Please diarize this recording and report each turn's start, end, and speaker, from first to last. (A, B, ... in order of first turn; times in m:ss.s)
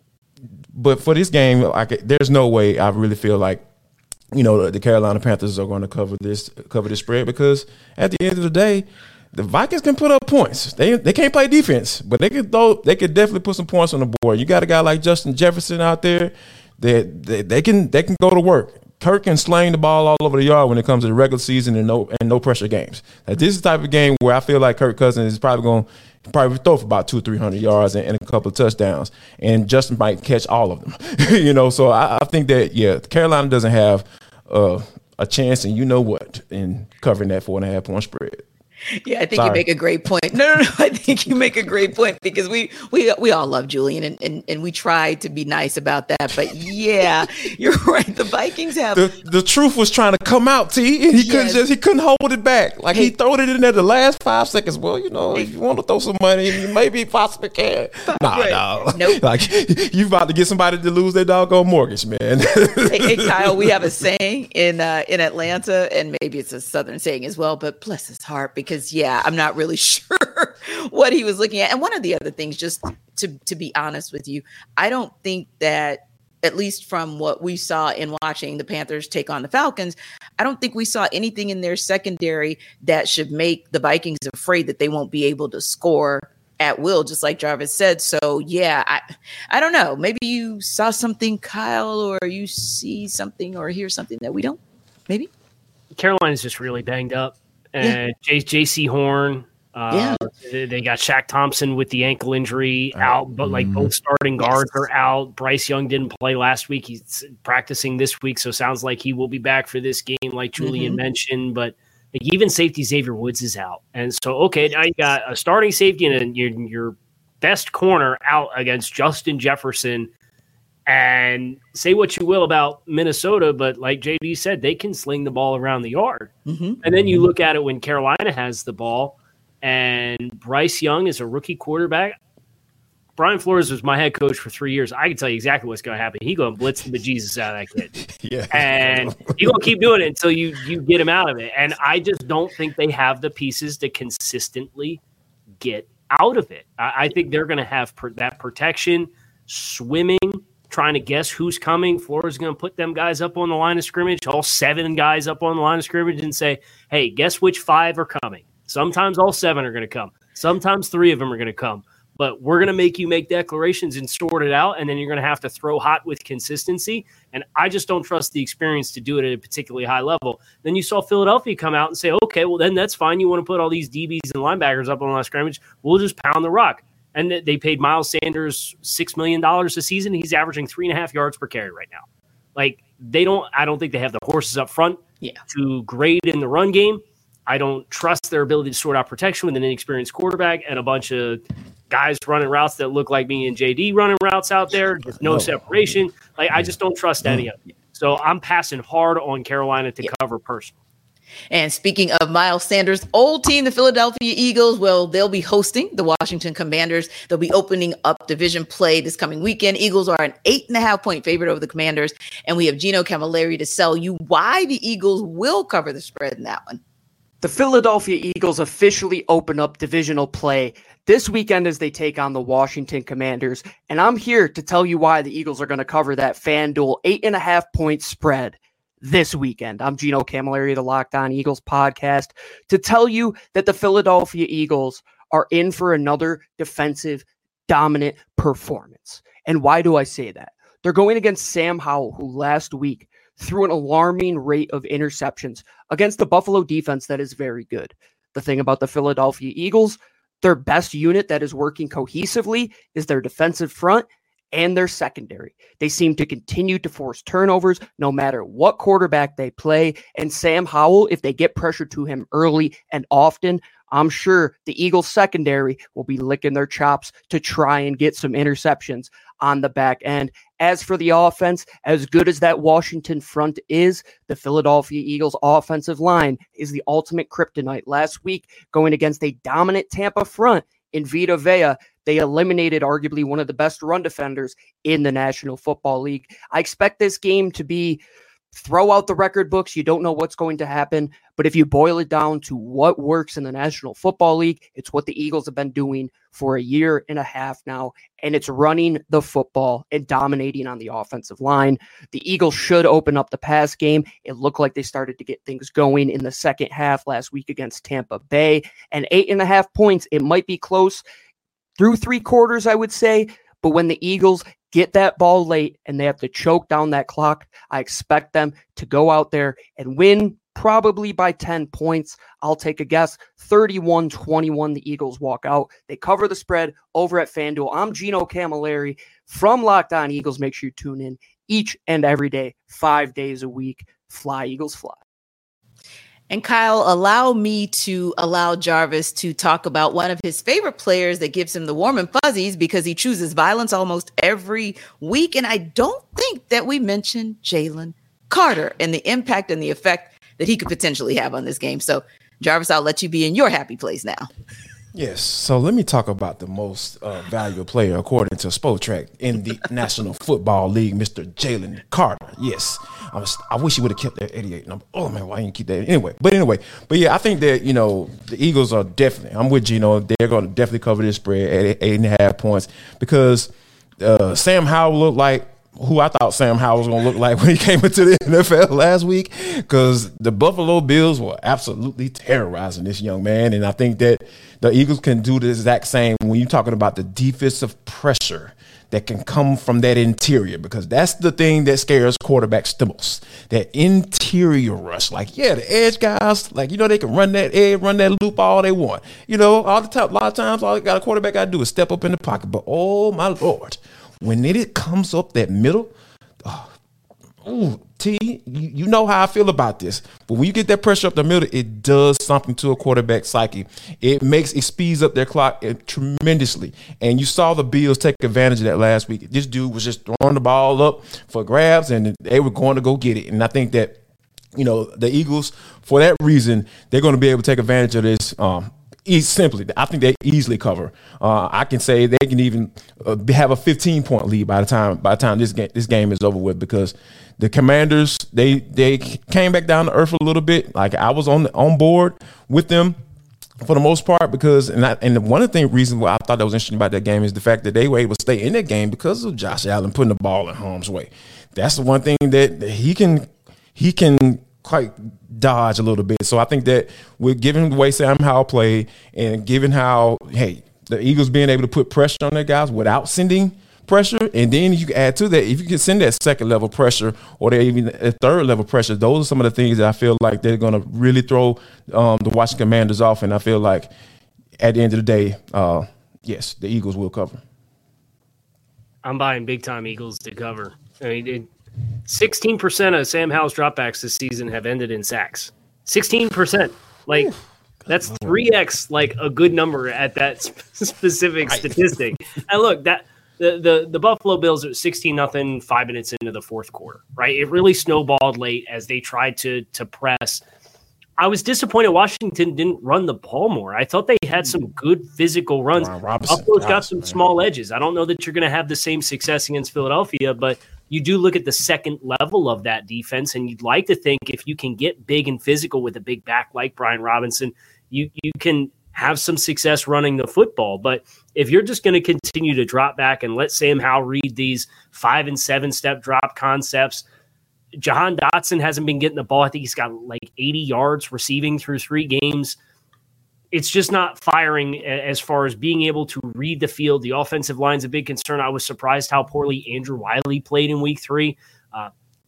0:00.7-0:03.6 A
0:04.3-0:38.4 A
0:38.9-0:49.1 B
0:39.4-0:39.6 A
0:48.9-1:03.8 A
0:51.2-0:51.6 B
0:58.1-0:59.2 B
1:02.8-1:35.3 B
1:35.9-2:00.1 C
1:39.9-1:40.2 B
1:42.9-1:43.9 A
1:44.4-1:44.8 B
1:50.6-1:51.0 B
2:00.9-2:06.3 C
2:06.4-2:06.8 B
2:06.8-2:12.2 C
2:13.2-2:17.9 C
2:18.1-2:19.5 A
2:18.5-2:25.0 C
2:25.6-3:02.0 C
3:02.6-3:20.8 C
3:15.2-3:15.6 A
3:21.5-3:36.8 B
3:37.4-4:48.0 D
4:48.5-5:11.0 D
5:11.8-5:35.0 D
5:36.3-5:54.3 B
5:54.9-6:46.7 A
6:47.4-7:04.0 A
7:04.5-7:23.0 A
7:23.6-7:53.9 A
7:54.6-7:57.4 A
7:59.0-8:01.5 C
8:02.1-8:07.3 C
8:07.1-8:08.4 A
8:07.9-8:20.4 C
8:11.5-8:11.8 A
8:21.2-8:47.0 C
8:25.7-8:27.2 A
8:47.8-8:52.6 C
8:53.5-9:01.9 C